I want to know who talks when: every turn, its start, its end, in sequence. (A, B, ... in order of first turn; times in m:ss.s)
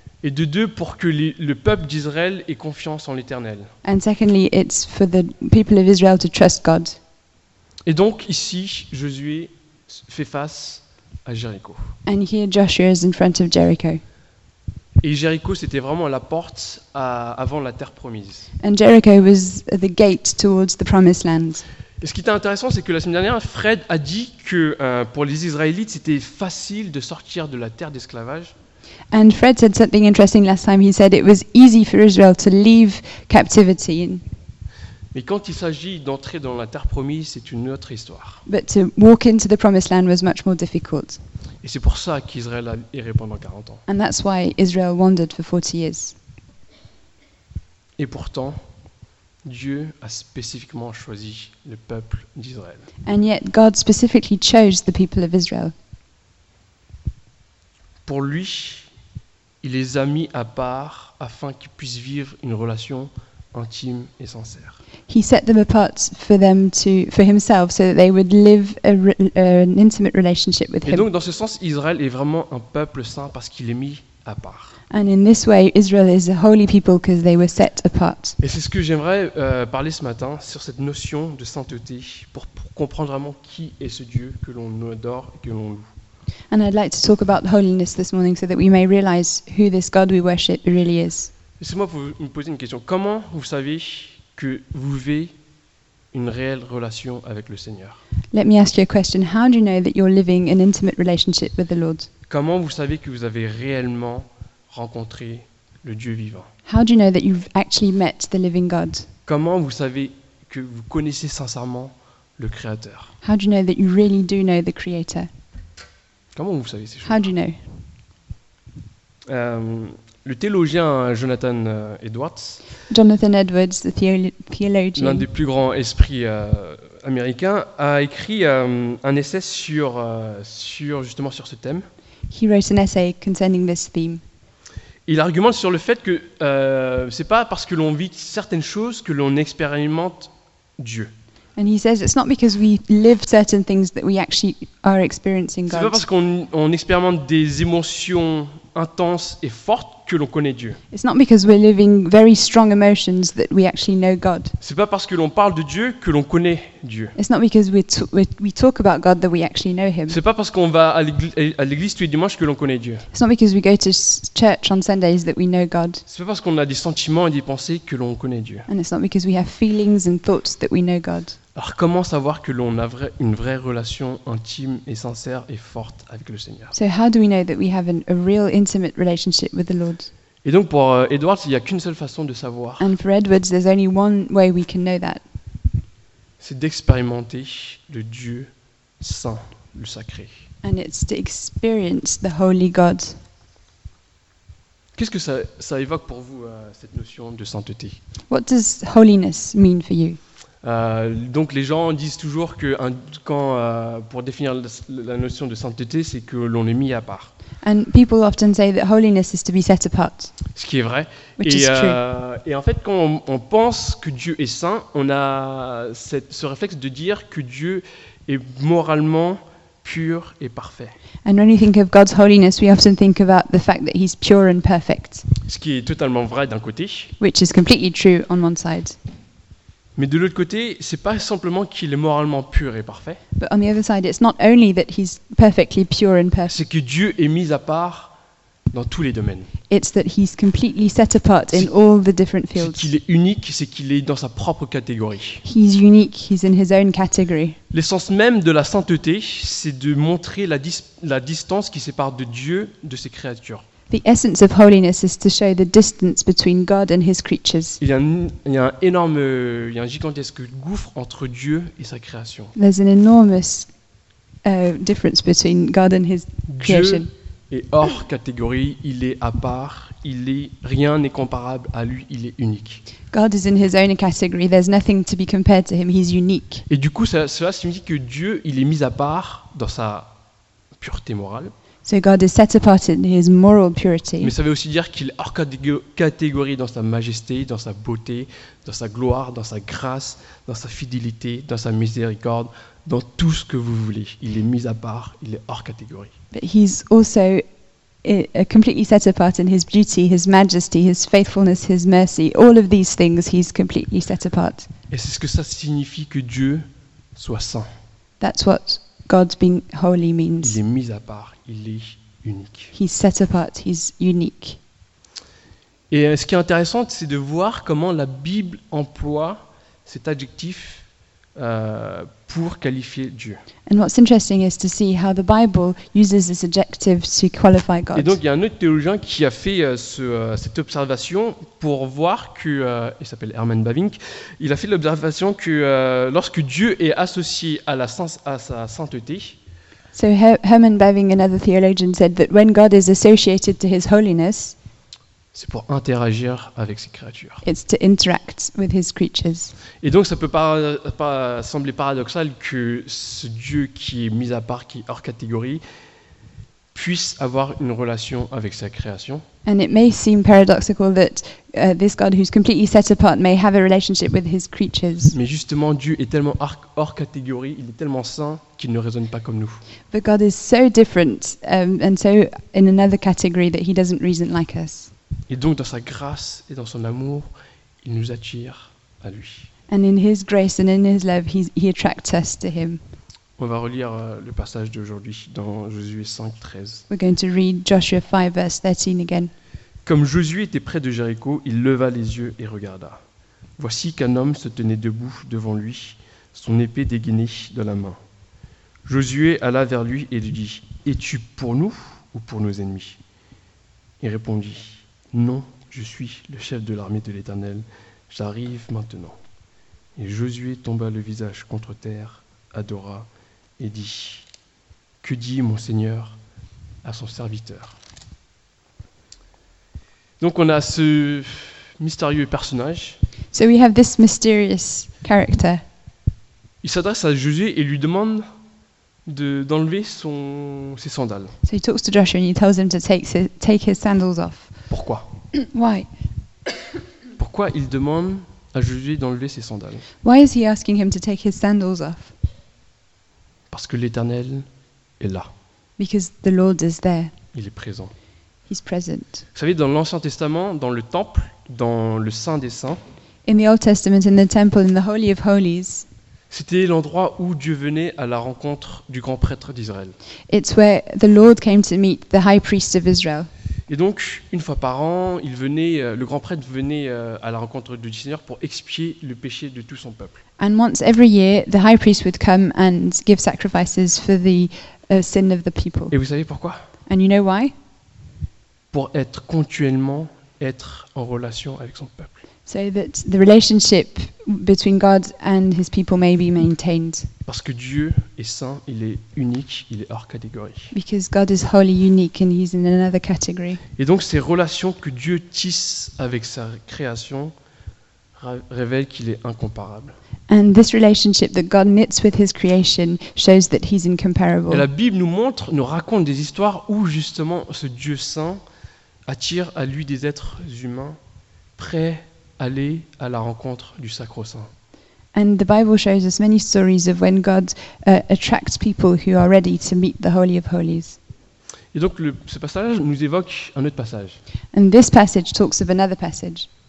0:00.2-0:03.7 A
0:03.8-0:07.0 B
0:07.8-0:11.8 A
0:12.0-0:14.0 B
0:15.0-0:18.5 A
0:18.6-0:21.6 B
0:22.0-0:28.5 A
0:29.1-0:34.2 B
0:35.1-0:38.4 A
0:38.5-0:41.2 B
0:41.6-0:43.8 A
0:43.9-0:46.2 B
0:48.0-0:48.6 A
0:49.4-0:52.9 A
0:53.0-0:55.7 B
0:58.0-0:58.9 A
0:59.6-1:04.8 A
1:05.1-1:11.0 B
1:10.8-1:14.8 A
1:14.9-1:18.4 B
1:18.4-1:25.9 A
1:26.5-1:31.3 B
1:31.6-1:35.3 A
1:36.1-1:38.0 A
1:38.3-1:42.1 B
1:42.3-1:46.5 A
1:46.7-1:49.1 B
1:49.2-1:53.1 A
1:53.2-1:55.3 B
1:56.4-1:57.2 A
1:57.0-1:57.6 B
1:59.3-2:02.6 A
2:02.9-2:05.2 B
2:05.0-2:11.9 A
2:12.3-2:14.2 B
2:15.0-2:21.1 A
2:21.6-2:26.0 B
2:25.7-2:30.8 A
2:30.9-2:34.5 B
2:34.6-2:37.2 A
2:37.2-2:40.2 B
2:40.1-2:43.1 A
2:43.1-2:46.0 B
2:46.1-2:48.7 A
2:48.7-2:51.4 B
2:51.5-2:56.8 A
2:56.8-3:00.1 B
3:00.4-3:02.9 A
3:02.8-3:05.2 B
3:06.4-3:10.4 A
3:10.6-3:13.2 B
3:15.0-3:18.0 A
3:18.3-3:20.2 B
3:20.6-3:27.3 A
3:27.6-3:30.3 B
3:30.5-3:40.9 A
3:31.4-3:32.0 B
3:41.2-3:45.2 B
3:45.4-3:47.1 A
3:47.2-3:49.0 B
3:50.0-3:53.2 A
3:53.4-3:56.6 B
3:56.5-3:58.1 A
3:58.7-3:59.5 A
3:59.7-4:02.9 B
4:02.6-4:05.4 A
4:05.4-4:07.6 B
4:07.7-4:13.6 A
4:13.9-4:17.8 B
4:17.8-4:22.5 A
4:22.6-4:23.7 B
4:24.4-4:27.1 B
4:26.5-4:32.8 A
4:33.1-4:36.6 B
4:36.7-4:40.1 A
4:40.8-4:41.5 A
4:41.8-4:44.3 B
4:44.2-4:56.1 A
4:56.3-4:57.4 B
4:58.0-5:04.7 B
5:04.9-5:07.7 A
5:08.2-5:10.6 B
5:10.4-5:12.7 A
5:12.7-5:14.6 B
5:15.9-5:20.8 A
5:21.4-5:23.4 A
5:23.7-5:28.2 B
5:27.9-5:39.4 A
5:39.9-5:44.6 B
5:45.3-5:47.4 A
5:47.4-5:49.5 B
5:49.8-5:55.6 A
5:56.7-5:59.2 A
5:59.4-6:05.1 B
6:05.1-6:09.6 A
6:09.9-6:14.9 B
6:15.3-6:17.3 A
6:17.8-6:19.5 A
6:19.7-6:22.8 B
6:23.4-6:26.8 A
6:26.9-6:29.3 B
6:29.8-6:33.0 A
6:33.6-6:38.0 A
6:38.8-6:43.0 A
6:44.0-6:49.2 A
6:50.0-6:53.1 A
6:53.6-6:54.3 A
6:55.0-6:56.2 A
6:56.8-6:57.8 A
7:00.2-7:03.0 A
7:03.3-7:05.6 B
7:06.6-7:08.2 A
7:09.0-7:11.4 A
7:11.4-7:14.5 B
7:14.7-7:15.1 A
7:15.4-7:15.9 B
7:17.2-7:19.9 A
7:20.0-7:22.1 B
7:23.5-7:24.5 A
7:25.0-7:25.3 A
7:25.8-7:27.1 B
7:27.3-7:27.9 A
7:28.5-7:29.2 B
7:29.4-7:32.8 A
7:33.2-7:35.9 B
7:36.3-7:39.9 A
7:40.3-7:43.3 B
7:43.7-7:50.2 A
7:50.4-7:55.9 B
7:55.9-7:56.6 A
7:56.9-7:57.5 B
7:58.7-8:02.2 A
8:02.4-8:07.1 B
8:07.2-8:10.7 A
8:10.7-8:13.6 B
8:13.8-8:17.3 A
8:18.2-8:20.0 A
8:20.3-8:24.6 B
8:24.5-8:28.4 A
8:29.1-8:31.0 A
8:31.6-8:34.5 A
8:35.1-8:41.0 B
8:41.7-8:44.2 A
8:44.5-8:46.5 B